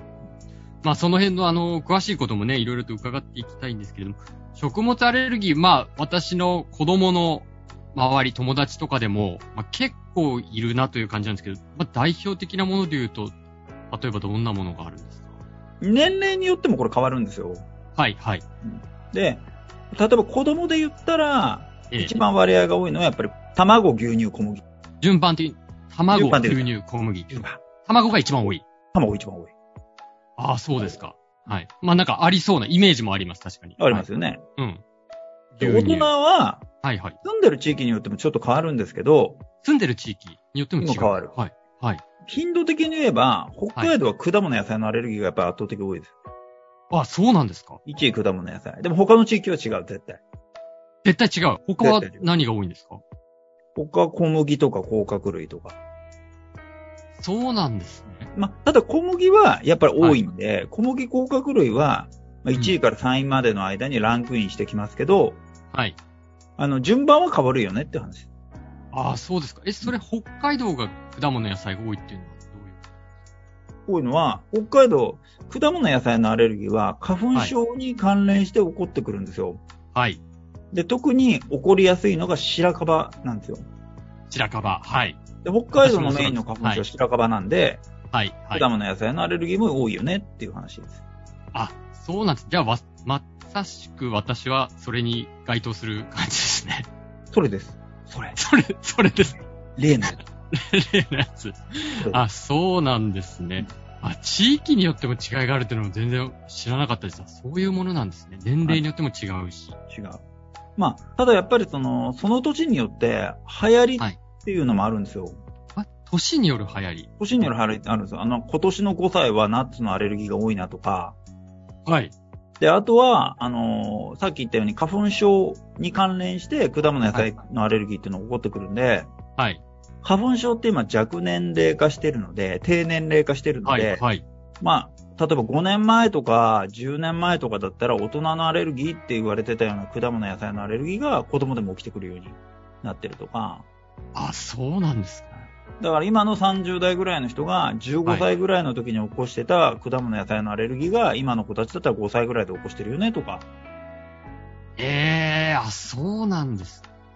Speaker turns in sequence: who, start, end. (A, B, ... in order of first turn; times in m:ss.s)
0:00.8-0:13.3 A
0:13.9-0:15.3 A
0:15.8-0:17.6 B
0:18.0-0:18.4 A
0:18.6-0:24.6 B
0:21.9-0:22.2 A
0:25.0-0:28.6 A
0:26.1-0:26.7 B
0:27.3-0:27.6 B
0:28.9-0:29.5 B
0:30.4-0:34.8 A
0:33.8-0:34.4 B
0:35.5-0:36.1 A
0:35.6-0:36.6 B
0:36.8-0:37.2 A
0:37.2-0:39.4 B
0:39.6-0:42.0 A
0:40.8-0:41.3 B
0:42.2-0:46.1 B
0:46.9-0:47.8 A
0:47.8-0:50.2 B
0:51.0-0:53.0 A
0:51.8-0:52.3 B
0:53.8-0:55.8 B
0:57.2-0:58.3 A
0:58.3-1:05.4 B
1:00.0-1:00.3 A
1:05.7-1:06.0 A
1:06.6-1:08.3 B
1:08.9-1:12.8 A
1:13.9-1:19.6 B
1:19.9-1:20.2 A
1:20.7-1:23.6 B
1:24.3-1:25.2 A
1:25.4-1:27.8 B
1:25.8-1:26.8 A
1:28.1-1:28.6 A
1:28.5-1:31.0 B
1:31.5-1:36.9 A
1:37.3-1:38.4 B
1:38.3-1:39.4 A
1:39.8-1:40.2 B
1:40.0-1:49.8 A
1:42.0-1:42.2 B
1:49.9-1:50.2 B
1:50.8-1:55.4 B
1:55.8-1:57.5 A
1:57.2-2:01.2 B
2:01.8-2:02.1 A
2:02.6-2:09.1 B
2:09.4-2:09.6 A
2:10.0-2:14.0 B
2:13.6-2:14.2 A
2:14.6-2:23.6 B
2:24.1-2:25.4 A
2:25.8-2:33.4 B
2:28.0-2:28.3 A
2:34.8-2:36.8 A